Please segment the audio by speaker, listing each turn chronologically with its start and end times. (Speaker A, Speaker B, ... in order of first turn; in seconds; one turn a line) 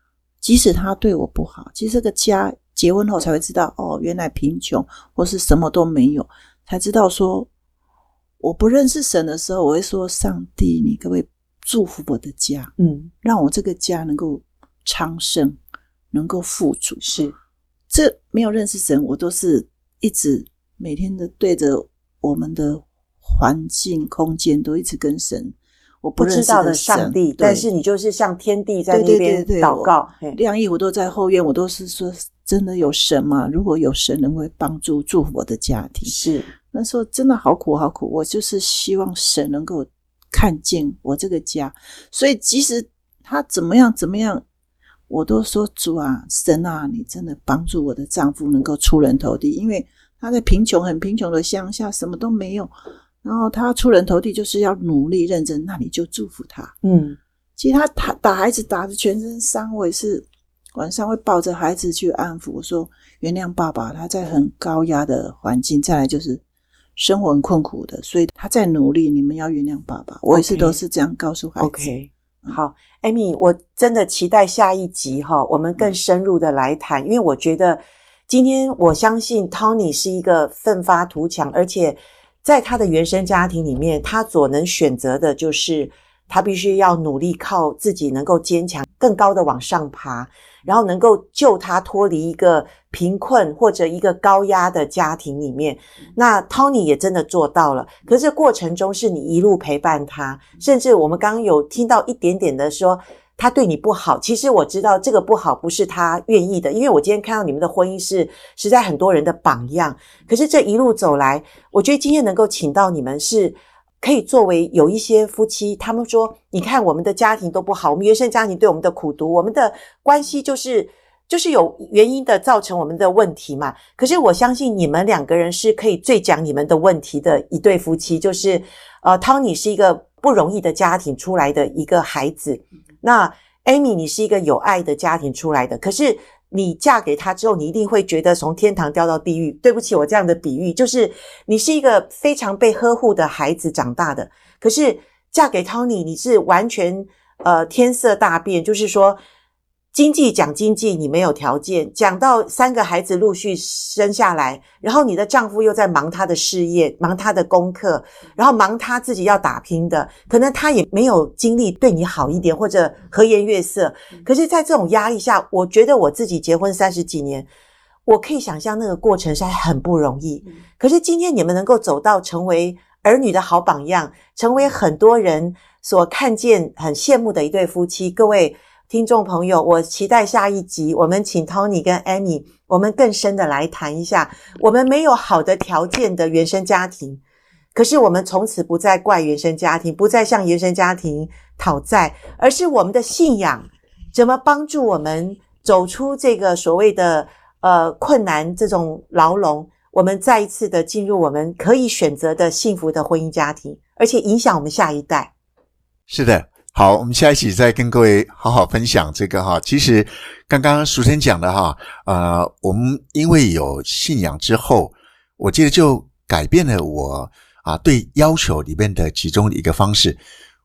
Speaker A: 0.4-7.5
Speaker A: 8.4-15.6
Speaker B: 12.8-13.1
Speaker A: 16.1-17.0
Speaker B: 17.0-17.3
Speaker A: 17.9-27.7
Speaker B: 26.2-30.4
Speaker A: 28.9-36.2
Speaker B: 36.0-36.5
Speaker A: 36.7-44.5
Speaker A: 45.1-52.7
Speaker A: 53.2-56.8
Speaker B: 56.8-57.2
Speaker A: 57.6-66.4
Speaker A: 67.0-71.9
Speaker B: 70.3-70.8
Speaker B: 71.6-149.2
Speaker B: 149.9-167.5
Speaker B: 168.1-187.2
Speaker B: 187.8-205.3
Speaker C: 206.1-220.2